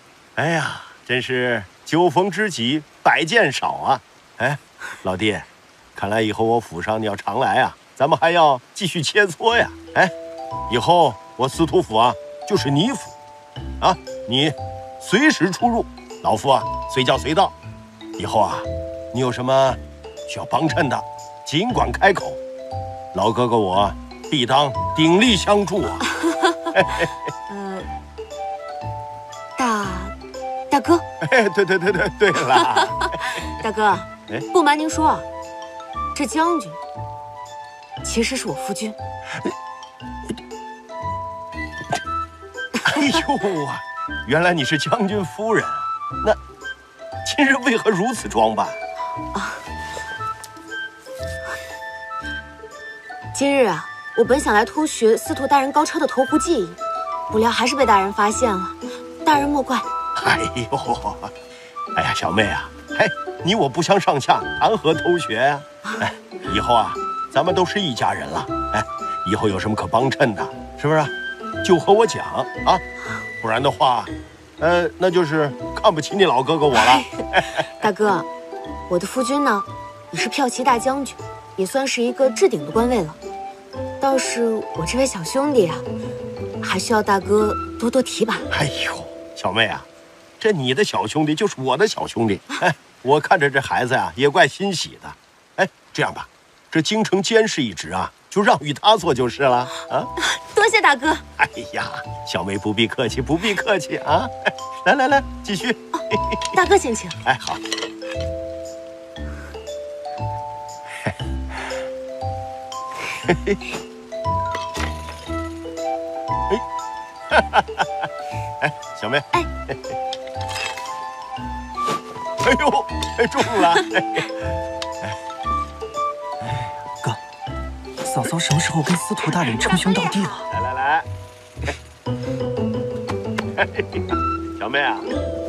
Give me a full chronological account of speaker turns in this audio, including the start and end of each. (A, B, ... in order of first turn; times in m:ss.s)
0:00.4-0:10.1 A
0:10.7-0:13.2 A
0:13.8-0:17.5 A
0:18.2-0:22.4 A
0:23.1-0:26.0 A
0:26.4-0:26.7 B
0:26.8-0:27.1 A
0:27.5-0:27.9 B
0:29.6-0:30.2 B
0:30.7-0:31.1 B
0:31.2-0:33.1 A
0:32.4-0:35.3 B
0:36.2-0:36.8 B
0:38.0-0:39.0 B
0:42.9-0:46.4 A
0:47.2-0:48.8 A
0:49.3-0:49.6 B
0:53.3-0:59.9 B
1:00.2-1:01.3 A
1:02.0-1:12.8 A
1:13.4-1:17.4 A
1:16.7-1:17.1 B
1:17.8-1:18.3 B
1:18.9-1:23.2 B
1:24.0-1:25.8 B
1:26.6-1:28.5 B
1:28.5-1:29.9 A
1:30.4-1:40.1 A
1:40.3-1:41.2 B
1:41.4-1:44.3 A
1:44.8-1:45.8 A
1:46.5-1:47.2 B
1:47.3-1:47.6 A
1:53.3-1:53.6 A
1:57.3-1:57.6 A
1:58.6-1:59.3 A
2:02.4-2:04.3 A
2:08.0-2:10.2 C
2:09.7-2:10.2 B
2:10.5-2:11.1 A
2:13.6-2:14.0 A
2:14.6-2:15.1 A